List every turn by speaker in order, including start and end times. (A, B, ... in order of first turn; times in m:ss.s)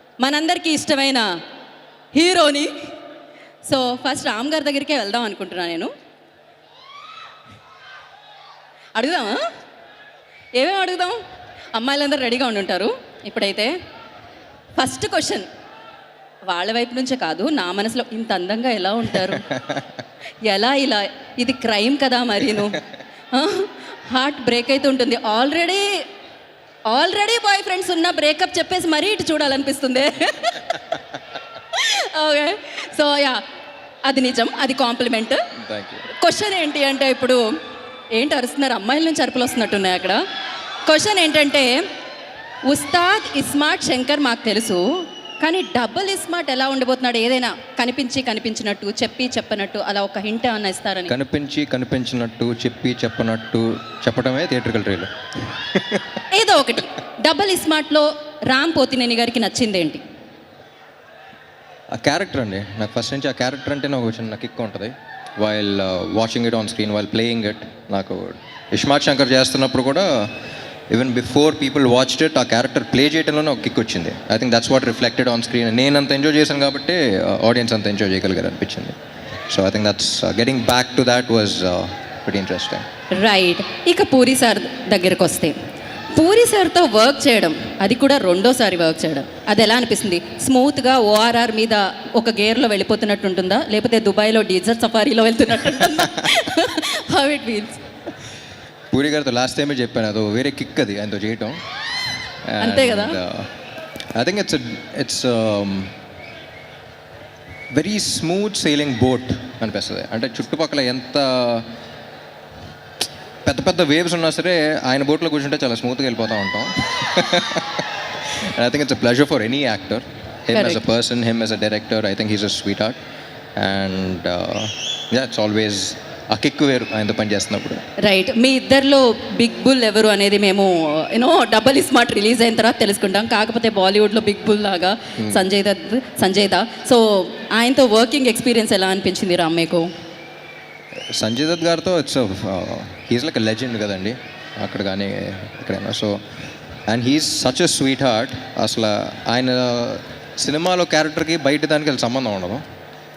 0:00.2-0:01.3 A
0:02.1-0:02.7 A
0:03.6-0:05.9 A
0:08.9-0:09.4 A
0:10.6-0:11.2 A
0:11.7-0:13.7 A
0:14.8-0:15.5 A
0:16.5-0:19.5 A
0:19.5-0:19.8 B
0:20.4-0:26.0 A
0:26.9-0:30.8 A
0:31.7-0:33.4 A
0:34.0-0:35.4 A
0:35.6-0:36.1 B
0:36.1-0:37.5 A
0:38.1-0:40.2 A
0:40.8-0:41.8 A
0:42.6-0:51.1 A
0:51.1-0:55.1 B
0:55.7-0:56.0 B
0:56.3-1:00.0 A
1:01.9-1:10.1 B
1:10.9-1:18.9 B
1:19.5-1:22.8 B
1:23.1-1:25.6 A
1:26.1-1:37.8 A
1:38.9-1:41.6 B
1:42.4-1:43.5 B
1:42.6-1:43.2 A
1:44.1-1:45.9 B
1:47.7-1:51.6 B
1:53.4-1:57.8 B
1:58.4-2:03.0 B
2:00.5-2:00.8 A
2:03.6-2:07.8 B
2:08.0-2:19.9 A
2:15.2-2:15.4 B
2:21.2-2:26.2 B
2:26.9-2:32.6 B